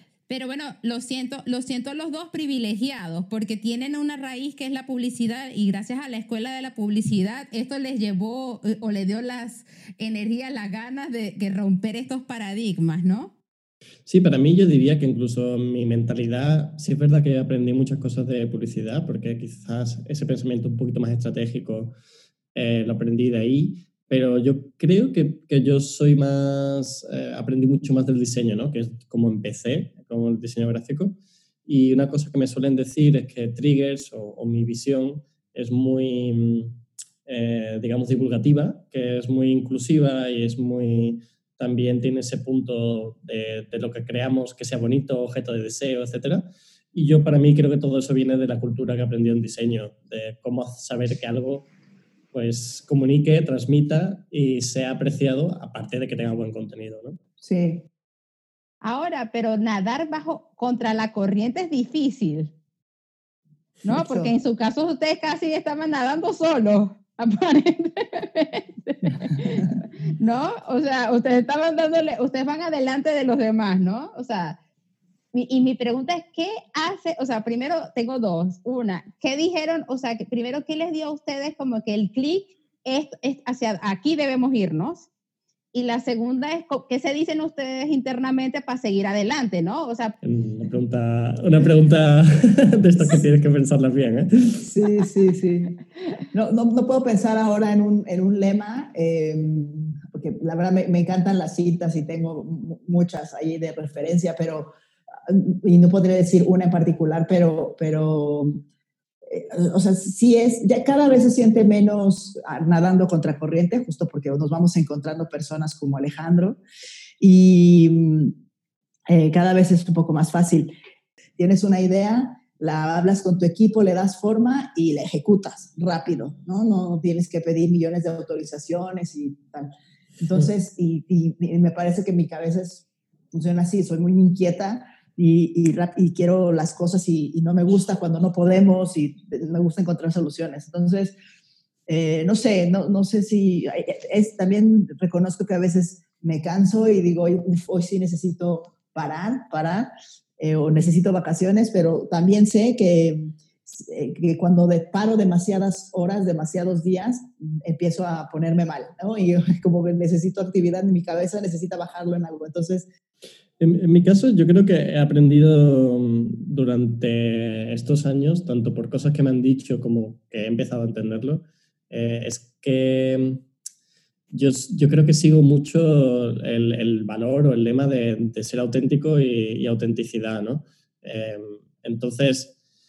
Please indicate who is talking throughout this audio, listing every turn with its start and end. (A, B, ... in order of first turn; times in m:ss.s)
0:00.3-0:13.4 A
0:14.0-0:21.9 B
0:22.5-0:51.7 B
0:52.3-0:57.2 B
0:57.4-0:57.8 C
0:58.8-1:02.5 A
1:03.8-1:14.6 A
1:03.9-1:04.3 C
1:15.3-1:25.1 A
1:25.7-1:30.1 A
1:30.2-1:34.6 B
1:34.6-1:35.8 C
1:36.3-1:44.7 C
1:45.3-1:48.6 C
1:49.2-1:56.6 C
1:57.2-1:58.3 C
1:59.1-2:00.7 C
2:01.4-2:21.2 C
2:21.9-2:42.9 C
2:43.6-2:53.4 B
2:54.3-3:02.5 B